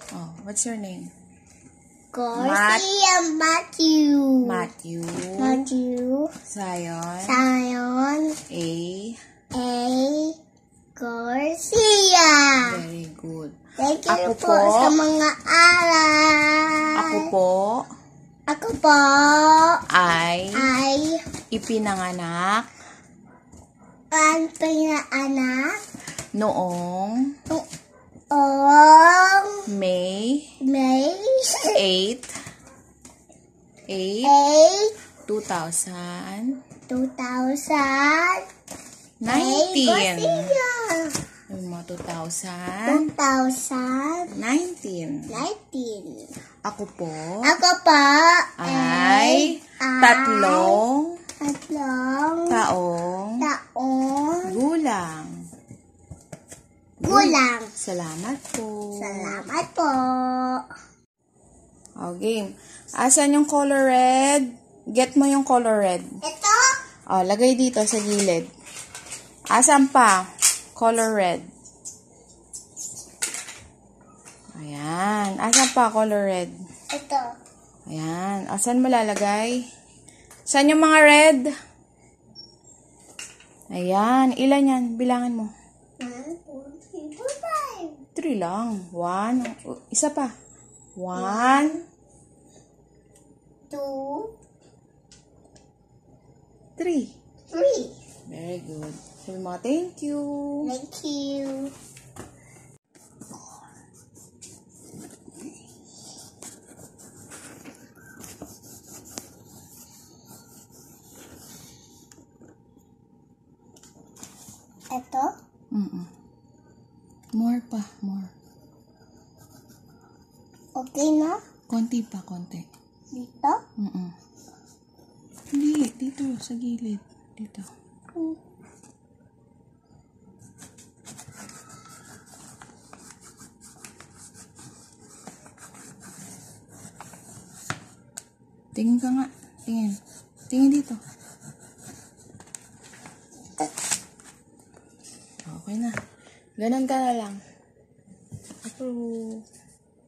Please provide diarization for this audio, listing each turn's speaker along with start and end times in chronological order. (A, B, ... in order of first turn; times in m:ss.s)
0:00.1-0:01.1 A
0:02.1-0:04.6 B
0:02.3-0:02.9 A
0:04.4-0:05.6 A
0:05.4-0:06.3 B
0:06.5-0:07.4 A
0:07.2-0:08.4 B
0:08.5-0:09.2 A
0:09.5-0:10.4 B
0:11.0-0:12.8 B
0:12.6-0:15.0 A
0:13.8-0:17.3 B
0:16.9-0:17.8 A
0:18.5-0:19.8 B
0:19.9-0:20.7 A
0:20.5-0:21.2 B
0:21.5-0:22.7 A
0:24.1-0:25.8 B
0:26.3-0:27.2 A
0:28.3-0:29.6 B
0:29.7-0:30.5 A
0:30.6-0:31.8 B
0:31.7-0:32.3 A
0:33.9-0:34.3 A
0:34.2-0:34.9 B
0:35.2-0:36.5 A
0:36.9-0:38.4 B
0:39.2-0:40.5 A
0:39.3-0:41.1 B
0:41.5-0:43.1 A
0:42.9-0:44.4 B
0:44.3-0:45.4 A
0:45.3-0:46.3 B
0:46.6-0:47.5 A
0:47.4-0:50.8 B
0:48.6-0:51.2 A
0:51.4-0:52.6 B
0:52.5-0:53.4 A
0:53.4-0:54.5 B
0:54.5-0:55.3 A
0:57.0-0:57.7 B
0:57.0-0:59.5 A
0:59.0-1:00.6 B
1:02.0-1:02.5 A
1:03.0-1:06.0 A
1:06.2-1:06.8 B
1:07.1-1:08.5 A
1:09.5-1:10.2 A
1:10.8-1:11.4 A
1:14.5-1:16.5 A
1:16.9-1:17.3 B
1:17.9-1:19.6 A
1:20.5-1:21.4 A
1:23.7-1:25.5 A
1:26.0-1:28.0 B
1:28.1-1:30.3 A
1:31.0-1:31.8 A
1:31.1-1:31.8 B
1:33.7-1:34.3 B
1:36.8-1:37.1 A
1:37.5-1:37.9 B
1:38.3-1:40.7 A
1:40.6-1:41.7 B
1:54.9-1:55.3 B
1:55.7-1:56.1 A
1:57.3-1:58.3 A
2:00.8-2:01.4 B
2:01.7-2:02.6 A
2:03.1-2:03.6 B
2:03.8-2:04.1 A
2:05.5-2:07.7 A
2:18.7-2:20.0 A
2:20.5-2:21.0 A
2:25.4-2:25.9 A
2:26.6-2:27.4 A
2:28.6-2:29.4 A